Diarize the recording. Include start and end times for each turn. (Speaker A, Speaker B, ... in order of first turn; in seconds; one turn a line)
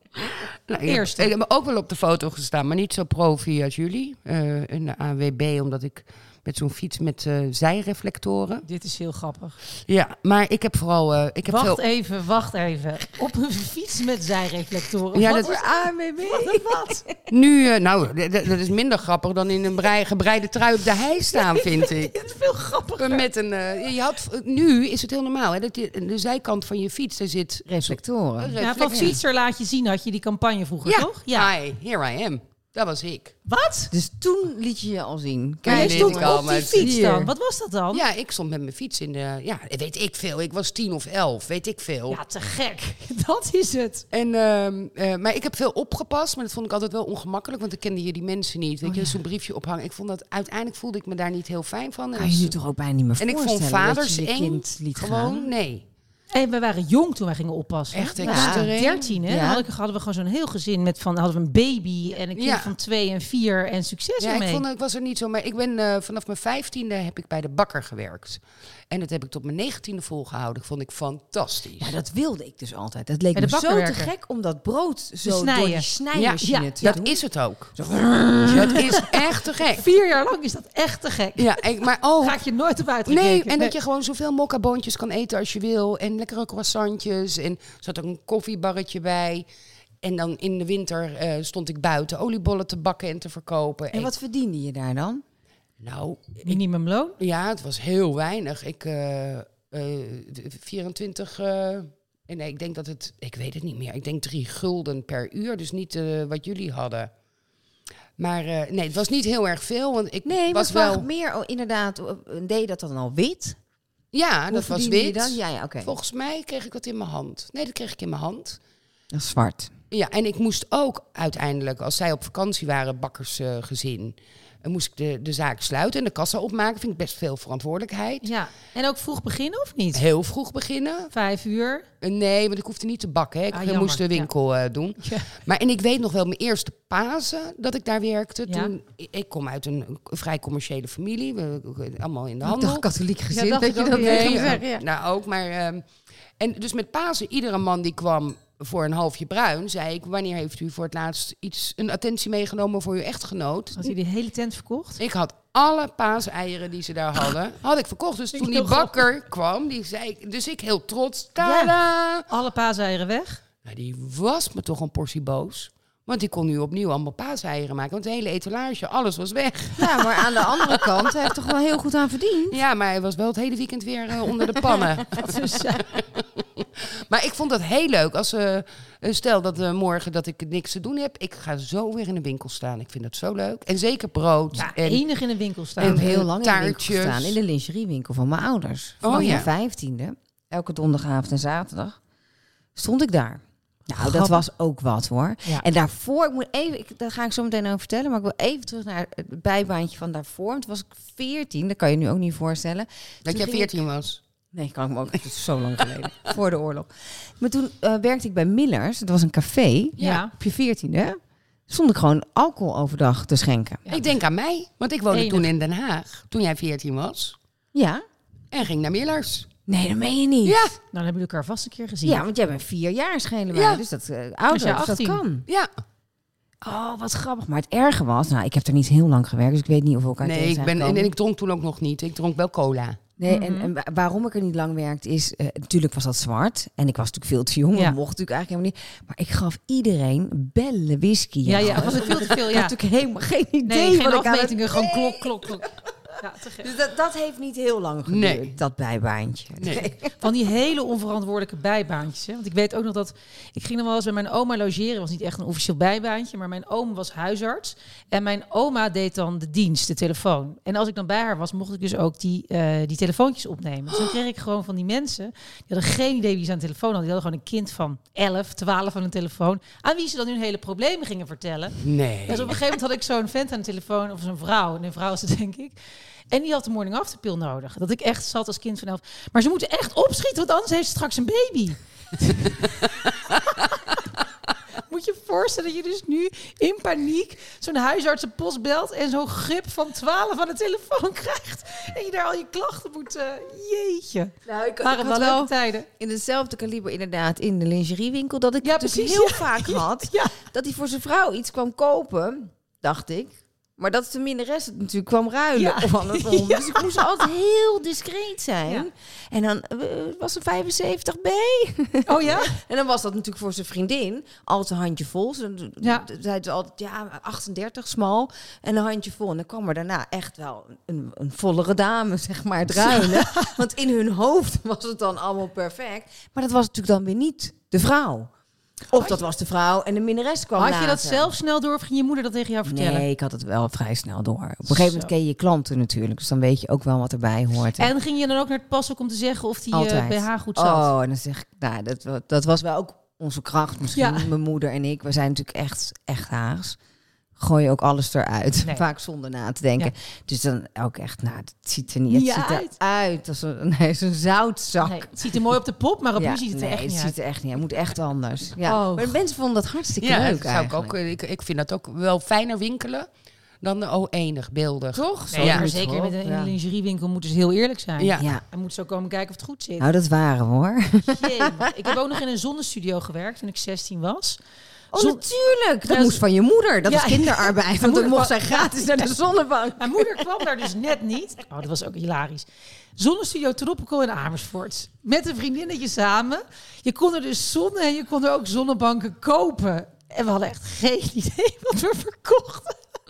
Speaker A: 0.2-8.6
Speaker B: 0.8-1.3
Speaker B: 8.6-9.6
Speaker A: 9.9-11.8
Speaker B: 11.5-15.6
Speaker A: 15.1-15.6
Speaker C: 15.2-17.2
Speaker B: 16.2-17.1
Speaker A: 17.3-22.2
Speaker B: 21.3-23.3
Speaker A: 23.0-29.2
Speaker C: 27.7-29.1
Speaker B: 28.6-31.5
Speaker A: 30.9-33.3
Speaker B: 33.5-33.9
Speaker C: 33.9-37.3
Speaker A: 35.6-36.9
Speaker B: 35.7-38.0
Speaker A: 37.9-42.2
Speaker B: 42.1-44.0
Speaker A: 44.1-52.5
Speaker B: 48.8-49.2
Speaker C: 52.1-55.5
Speaker A: 53.2-55.8
Speaker B: 56.3-64.6
Speaker A: 57.9-59.2
Speaker C: 58.2-59.6
Speaker A: 62.3-62.8
Speaker A: 64.2-71.9
Speaker C: 71.8-77.2
Speaker B: 73.3-74.1
Speaker B: 75.2-75.9
Speaker A: 76.1-77.8
Speaker B: 76.4-76.8
Speaker C: 77.8-79.2
Speaker A: 78.4-79.8
Speaker B: 78.7-79.0
Speaker B: 79.7-81.6
Speaker A: 81.4-82.4
Speaker B: 82.2-83.8
Speaker A: 83.0-89.5
Speaker A: 90.0-94.1
Speaker C: 93.9-95.2
Speaker A: 95.8-96.6
Speaker B: 96.4-97.2
Speaker A: 97.2-107.1
Speaker A: 108.2-111.0
Speaker C: 110.2-113.6
Speaker A: 114.1-118.6
Speaker C: 114.5-115.9
Speaker C: 119.1-119.7
Speaker A: 119.9-128.3
Speaker B: 128.2-130.0
Speaker A: 129.9-131.1
Speaker B: 131.1-131.9
Speaker A: 132.0-142.9
Speaker B: 133.5-134.3
Speaker B: 135.0-135.3
Speaker B: 138.5-138.7
Speaker C: 142.4-144.8
Speaker B: 143.3-144.6
Speaker A: 143.8-145.8
Speaker A: 146.4-153.9
Speaker B: 153.8-155.0
Speaker A: 155.0-162.3
Speaker B: 158.3-159.0
Speaker B: 161.4-161.7
Speaker B: 162.3-163.4
Speaker A: 163.6-171.3
Speaker C: 169.8-172.6
Speaker A: 172.5-185.0
Speaker B: 175.1-175.9
Speaker B: 184.6-186.0
Speaker A: 185.8-187.4
Speaker C: 185.8-192.0
Speaker A: 189.0-189.5
Speaker B: 189.1-189.4
Speaker C: 192.8-203.8
Speaker B: 193.9-194.4
Speaker A: 203.2-204.2
Speaker C: 204.5-213.8
Speaker B: 210.0-210.3
Speaker B: 213.8-214.1
Speaker A: 213.9-217.4
Speaker B: 215.1-215.5
Speaker C: 217.7-218.0
Speaker A: 218.5-219.5
Speaker C: 219.7-220.7
Speaker A: 220.4-220.8
Speaker B: 220.9-222.2
Speaker C: 222.0-225.4
Speaker A: 223.5-223.8
Speaker B: 224.5-225.2
Speaker C: 226.6-231.1
Speaker A: 230.2-233.0
Speaker C: 233.2-250.1
Speaker B: 233.3-233.7
Speaker B: 241.4-242.8
Speaker B: 243.7-245.7
Speaker B: 246.2-246.7
Speaker A: 248.1-248.5
Speaker A: 249.6-249.9
Speaker B: 250.2-275.8
Speaker A: 271.8-272.6
Speaker B: 276.3-284.0
Speaker B: 284.9-295.9
Speaker C: 294.4-328.3
Speaker B: 298.6-300.4
Speaker B: 305.5-307.1
Speaker B: 312.1-312.6
Speaker B: 315.8-316.1
Speaker B: 322.8-323.6
Speaker C: 328.9-331.3
Speaker B: 330.6-333.1
Speaker C: 332.6-337.9
Speaker B: 334.7-335.1
Speaker B: 337.8-340.9
Speaker C: 339.7-346.8
Speaker B: 343.9-344.3
Speaker C: 347.4-355.4
Speaker B: 352.1-352.8
Speaker B: 354.8-357.1
Speaker C: 356.2-360.9
Speaker B: 358.6-359.1
Speaker A: 360.0-363.1
Speaker A: 363.6-365.7
Speaker C: 364.9-366.5
Speaker B: 365.3-369.9
Speaker A: 368.0-368.2
Speaker C: 369.8-371.9
Speaker B: 371.1-374.4
Speaker C: 374.9-380.2
Speaker B: 374.9-375.2
Speaker B: 375.9-376.2
Speaker B: 376.8-378.8
Speaker B: 379.8-382.4
Speaker B: 383.0-392.8